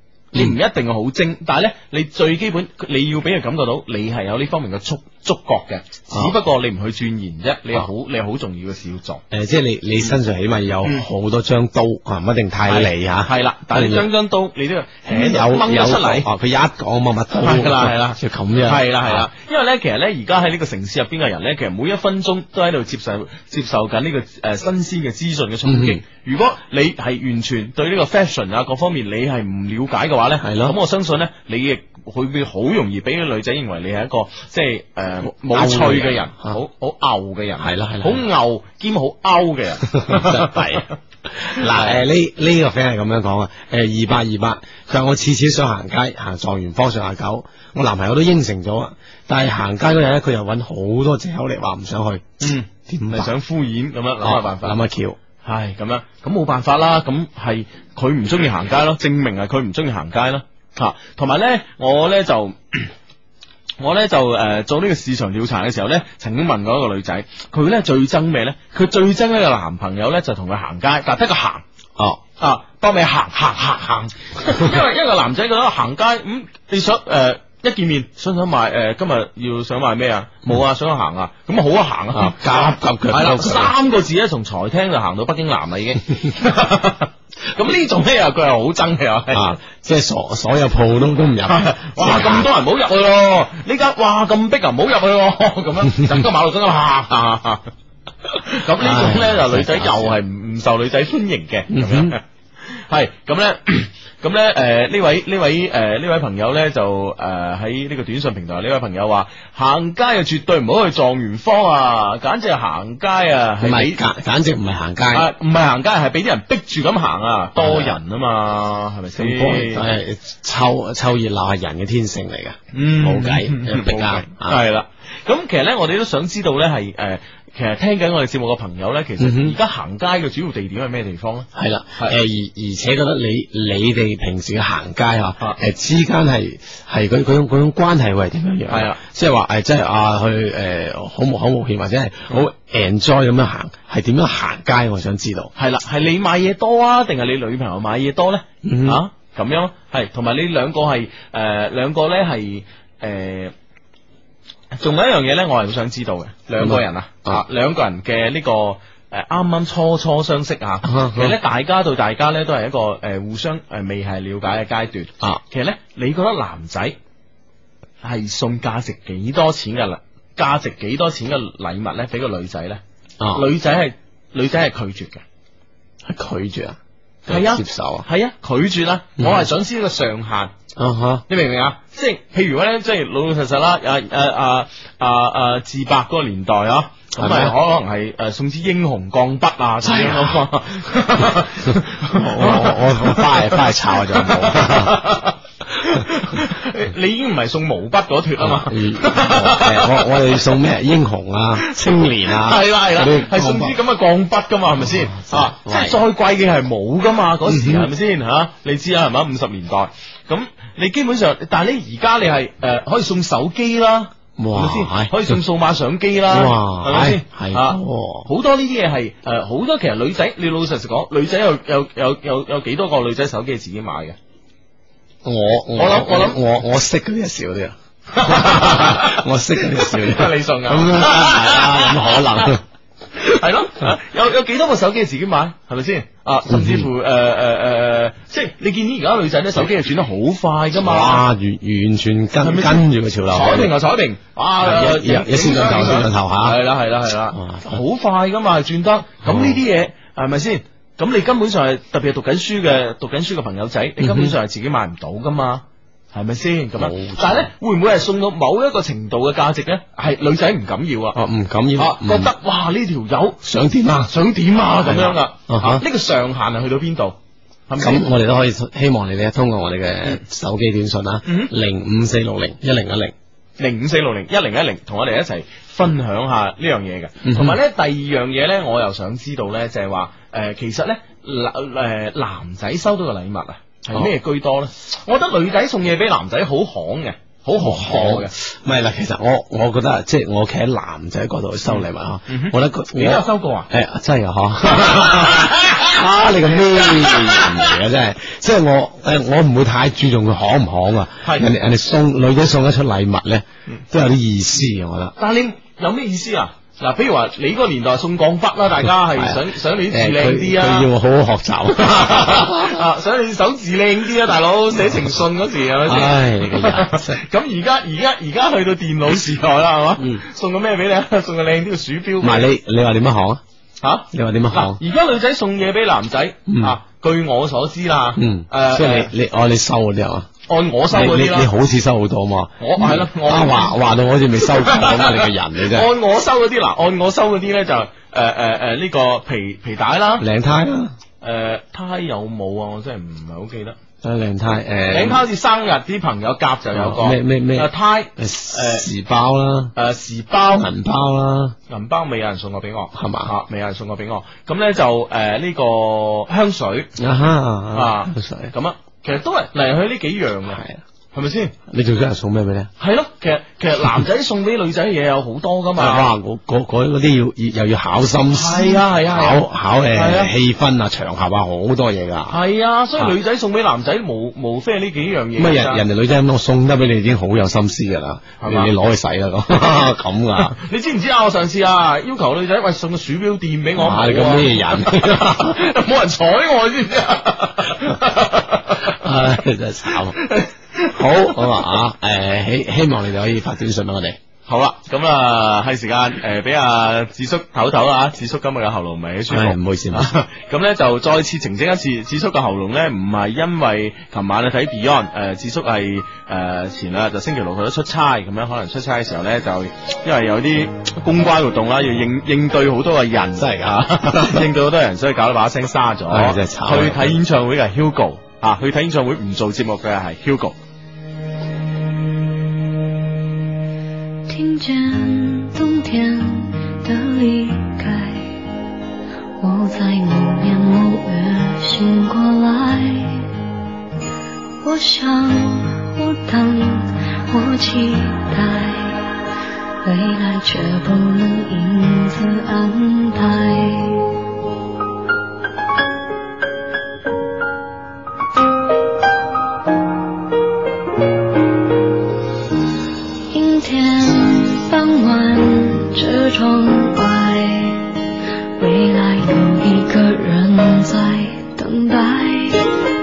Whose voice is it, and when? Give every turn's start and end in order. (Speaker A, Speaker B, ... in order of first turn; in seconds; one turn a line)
Speaker A: 0.3-9.2
Speaker B: 9.3-14.1
Speaker A: 12.7-16.3
Speaker B: 15.1-19.3
Speaker A: 17.4-40.9
Speaker B: 25.6-26.0
Speaker B: 30.4-30.8
Speaker B: 35.3-36.5
Speaker B: 37.6-38.2
Speaker B: 39.9-40.8
Speaker B: 41.4-53.3
Speaker A: 41.5-42.0
Speaker A: 52.4-54.8
Speaker B: 54.2-55.2
Speaker A: 55.4-62.9
Speaker A: 63.8-71.6
Speaker A: 72.4-89.6
Speaker B: 82.1-83.7
Speaker B: 89.3-92.5
Speaker A: 91.5-97.7
Speaker A: 98.4-114.0
Speaker B: 98.8-100.2
Speaker B: 101.7-102.2
Speaker B: 113.6-115.3
Speaker A: 115.1-119.8
Speaker B: 117.5-118.0
Speaker B: 119.2-124.6
Speaker A: 122.7-132.2
Speaker B: 129.2-129.6
Speaker B: 131.5-145.5
Speaker A: 138.7-139.0
Speaker A: 145.6-153.5
Speaker B: 148.6-149.0
Speaker A: 154.7-167.0
Speaker B: 156.6-157.4
Speaker B: 160.8-161.3
Speaker A: 168.0-172.8
Speaker B: 173.2-173.5
Speaker A: 173.3-175.2
Speaker B: 176.0-178.1
Speaker A: 177.3-180.5
Speaker B: 179.2-179.5
Speaker B: 180.8-181.2
Speaker A: 181.3-200.4
Speaker B: 187.2-187.5
Speaker B: 189.8-190.4
Speaker B: 191.2-195.0
Speaker B: 198.4-203.8
Speaker A: 201.6-224.2
Speaker B: 204.8-206.0
Speaker B: 207.5-207.9
Speaker B: 214.4-215.4
Speaker B: 216.3-218.3
Speaker B: 225.2-232.6
Speaker A: 225.8-226.4
Speaker A: 228.1-232.6
Speaker A: 233.2-241.2
Speaker B: 236.5-236.9
Speaker B: 240.7-243.7
Speaker A: 242.4-261.2
Speaker B: 244.6-246.6
Speaker B: 247.3-247.8
Speaker B: 249.2-249.6
Speaker B: 254.0-254.3
Speaker B: 256.8-257.5
Speaker B: 261.1-262.3
Speaker A: 261.8-263.4
Speaker B: 263.4-264.1
Speaker A: 264.1-267.1
Speaker B: 264.8-265.8
Speaker A: 267.7-268.0
Speaker B: 267.8-273.1
Speaker A: 271.2-271.5
Speaker A: 273.6-288.3
Speaker B: 277.2-277.6
Speaker B: 287.6-305.1
Speaker A: 291.7-293.7
Speaker A: 294.7-295.9
Speaker A: 296.6-297.8
Speaker A: 301.2-301.5
Speaker A: 305.2-310.9
Speaker B: 309.1-312.8
Speaker A: 311.8-322.5
Speaker B: 315.8-317.2
Speaker B: 322.2-323.4
Speaker A: 323.8-329.1
Speaker B: 324.1-324.8
Speaker B: 326.5-326.8
Speaker B: 328.2-330.3
Speaker A: 330.5-331.5
Speaker B: 330.9-335.9
Speaker A: 332.6-333.7
Speaker A: 334.4-340.2
Speaker B: 340.2-340.9
Speaker A: 341.2-343.8
Speaker B: 344.0-345.2
Speaker A: 344.9-348.9
Speaker B: 346.7-349.7
Speaker A: 349.7-350.7
Speaker B: 350.5-351.6
Speaker A: 351.7-356.9
Speaker B: 352.9-353.3
Speaker B: 357.0-358.5
Speaker A: 357.7-360.6
Speaker B: 360.5-360.8
Speaker A: 361.1-361.5
Speaker B: 361.7-362.7
Speaker A: 362.8-366.1
Speaker B: 365.8-372.4
Speaker A: 368.3-370.3
Speaker A: 372.3-375.8
Speaker B: 375.4-380.6
Speaker A: 378.4-378.7
Speaker A: 380.4-389.0
Speaker B: 383.8-385.6
Speaker B: 388.8-390.2
Speaker A: 389.9-391.7
Speaker B: 390.9-394.2
Speaker A: 394.5-420.6
Speaker B: 399.3-400.1
Speaker B: 413.4-414.5
Speaker B: 416.1-417.1
Speaker C: 424.3-428.3
Speaker C: 429.4-433.3
Speaker C: 434.6-439.1
Speaker C: 439.8-444.1
Speaker C: 453.3-457.8
Speaker C: 458.6-462.8